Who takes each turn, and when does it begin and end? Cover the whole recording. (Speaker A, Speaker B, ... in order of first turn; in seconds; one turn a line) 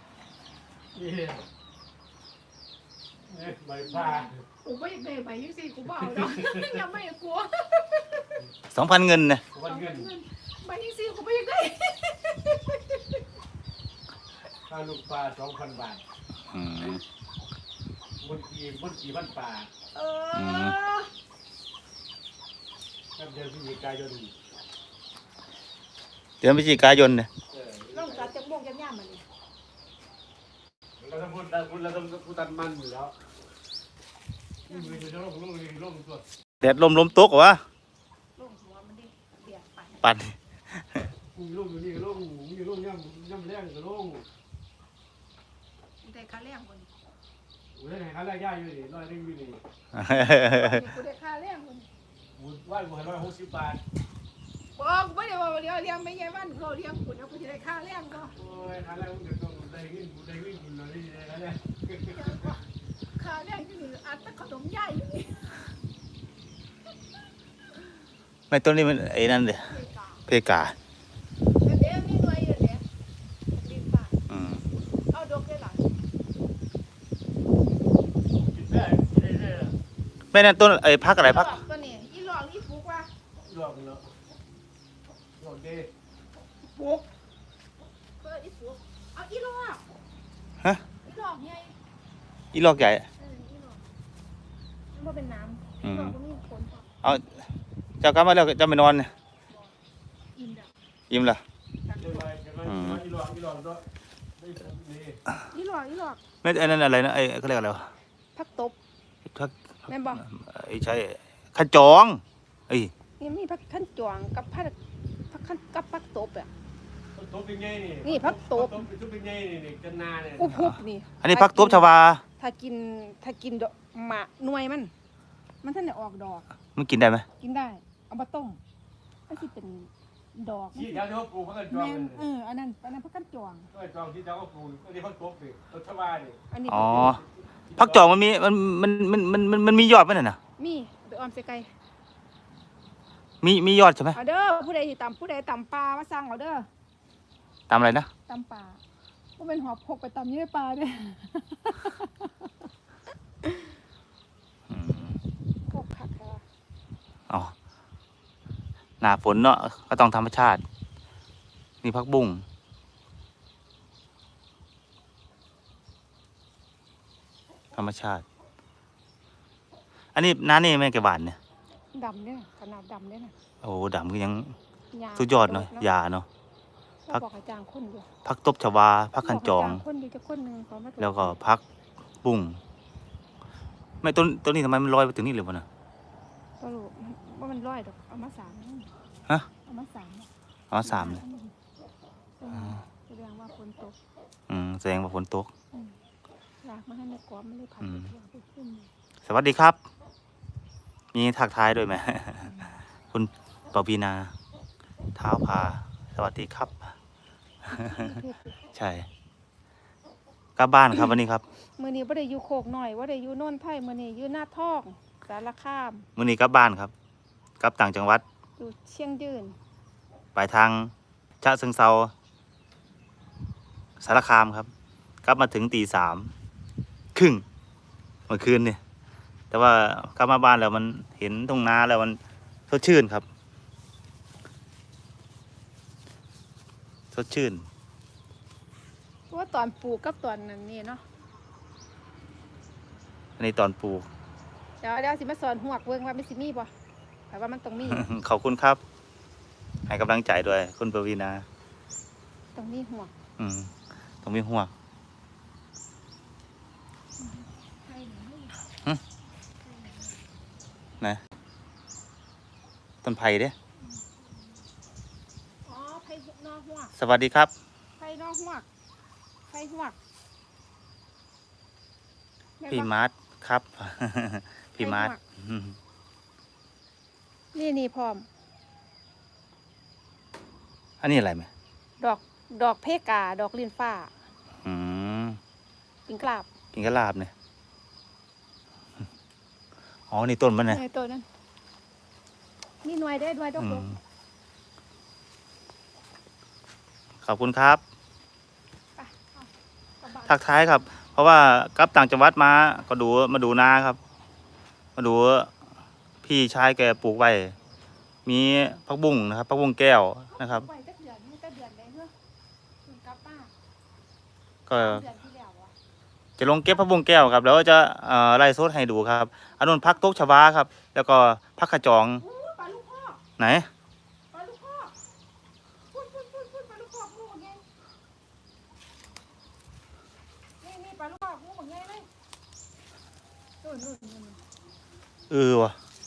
Speaker A: 0.9-1.4
Speaker A: 3.3-4.4
Speaker B: 3.8-8.3
Speaker A: 6.0-6.8
Speaker C: 8.7-9.4
Speaker A: 9.5-10.1
Speaker B: 9.6-13.2
Speaker A: 14.7-16.0
Speaker C: 16.5-17.0
Speaker A: 18.2-19.7
Speaker B: 19.9-21.1
Speaker C: 20.3-20.8
Speaker A: 23.2-24.3
Speaker C: 26.4-27.3
Speaker A: 27.5-28.3
Speaker B: 27.9-29.2
Speaker A: 31.0-33.1
Speaker B: 34.7-35.1
Speaker A: 34.7-36.2
Speaker C: 36.6-37.6
Speaker B: 38.4-40.1
Speaker C: 40.0-41.1
Speaker A: 41.4-44.3
Speaker B: 46.0-46.9
Speaker A: 47.8-49.6
Speaker C: 49.9-50.8
Speaker B: 50.1-51.9
Speaker A: 52.4-53.8
Speaker B: 54.8-58.4
Speaker A: 58.4-62.5
Speaker B: 62.0-65.7
Speaker C: 68.5-69.7
Speaker B: 69.7-70.2
Speaker C: 70.3-70.8
Speaker B: 71.6-72.8
Speaker B: 73.5-74.2
Speaker C: 74.3-74.7
Speaker B: 75.1-75.9
Speaker A: 78.3-79.8
Speaker C: 80.3-81.6
Speaker B: 81.1-83.1
Speaker A: 83.5-84.1
Speaker A: 85.4-85.9
Speaker B: 86.7-87.1
Speaker B: 88.2-89.8
Speaker B: 91.0-91.8
Speaker C: 92.5-93.1
Speaker B: 93.2-93.8
Speaker B: 94.9-96.9
Speaker C: 95.8-96.2
Speaker C: 98.0-99.1
Speaker B: 100.3-100.7
Speaker C: 101.1-101.4
Speaker B: 101.8-102.3
Speaker A: 102.0-103.8
Speaker C: 102.7-103.0
Speaker A: 104.4-105.2
Speaker B: 105.5-106.2
Speaker C: 106.4-107.9
Speaker B: 108.3-108.8
Speaker C: 109.3-112.9
Speaker B: 109.9-110.2
Speaker B: 113.2-114.8
Speaker B: 115.3-116.5
Speaker A: 117.2-120.6
Speaker B: 118.0-118.9
Speaker B: 120.4-121.8
Speaker C: 120.5-122.2
Speaker B: 122.4-124.9
Speaker B: 125.6-126.5
Speaker C: 126.8-127.3
Speaker B: 127.4-128.6
Speaker B: 129.3-131.1
Speaker A: 130.7-132.2
Speaker B: 131.7-133.7
Speaker A: 133.7-138.1
Speaker B: 136.5-137.2
Speaker C: 136.7-137.2
Speaker C: 137.8-140.4
Speaker B: 140.6-141.7
Speaker C: 143.4-144.2
Speaker B: 144.1-146.7
Speaker C: 147.7-148.1
Speaker B: 148.3-148.8
Speaker B: 149.4-152.5
Speaker C: 154.7-155.2
Speaker B: 155.7-156.4
Speaker C: 157.3-157.5
Speaker C: 159.0-160.6
Speaker C: 161.8-162.4
Speaker C: 167.8-168.2
Speaker C: 170.1-171.4
Speaker B: 171.9-173.3
Speaker C: 173.6-174.6
Speaker B: 174.9-175.9
Speaker C: 175.2-176.3
Speaker B: 177.1-178.1
Speaker C: 178.2-179.8
Speaker B: 179.2-181.4
Speaker C: 181.0-181.6
Speaker C: 182.2-182.6
Speaker C: 184.0-185.7
Speaker B: 186.6-188.9
Speaker B: 189.7-190.3
Speaker C: 190.7-191.2
Speaker B: 190.8-191.5
Speaker B: 192.4-194.0
Speaker C: 192.5-192.8
Speaker C: 194.5-195.5
Speaker B: 196.6-198.9
Speaker C: 197.8-198.1
Speaker C: 199.3-199.8
Speaker C: 201.1-202.6
Speaker B: 202.5-202.8
Speaker C: 203.1-204.3
Speaker C: 205.2-206.9
Speaker B: 207.7-208.6
Speaker C: 207.7-208.1
Speaker C: 208.7-209.1
Speaker C: 210.6-211.4
Speaker B: 211.8-216.1
Speaker C: 216.2-216.9
Speaker C: 217.6-218.2
Speaker B: 218.6-219.6
Speaker C: 220.3-222.1
Speaker C: 224.0-224.7
Speaker C: 225.2-226.3
Speaker C: 227.2-227.4
Speaker C: 228.3-228.8
Speaker C: 229.5-232.2
Speaker C: 232.7-233.2
Speaker C: 237.1-237.7
Speaker B: 239.3-241.0
Speaker C: 243.4-244.1
Speaker B: 244.8-246.7
Speaker B: 247.3-248.1
Speaker C: 247.9-248.8
Speaker C: 249.9-251.4
Speaker B: 252.5-253.1
Speaker C: 253.4-253.7
Speaker C: 254.2-254.7
Speaker B: 257.2-258.6
Speaker B: 259.6-260.2
Speaker C: 263.0-263.5
Speaker B: 263.9-264.2
Speaker B: 265.6-266.9
Speaker C: 267.0-267.5
Speaker B: 268.0-268.7
Speaker B: 269.5-270.0
Speaker B: 272.6-272.9
Speaker C: 272.7-275.8
Speaker B: 274.8-275.2
Speaker B: 277.5-278.3
Speaker C: 281.0-281.5
Speaker B: 282.0-284.1
Speaker C: 284.6-285.4
Speaker B: 286.1-286.5
Speaker C: 286.7-287.3
Speaker C: 290.1-290.8
Speaker B: 290.7-291.3
Speaker B: 292.8-294.0
Speaker C: 293.6-293.9
Speaker C: 297.2-297.8
Speaker B: 299.0-300.4
Speaker C: 300.3-304.0
Speaker C: 305.0-305.5
Speaker C: 306.2-307.5
Speaker C: 308.3-310.7
Speaker B: 310.3-312.1
Speaker B: 312.9-313.5
Speaker C: 314.7-315.0
Speaker B: 314.7-315.7
Speaker C: 316.4-322.2
Speaker B: 322.2-323.2
Speaker C: 323.4-323.7
Speaker B: 324.3-324.9
Speaker B: 325.9-327.6
Speaker B: 330.6-332.1
Speaker B: 333.6-334.4
Speaker C: 335.3-335.7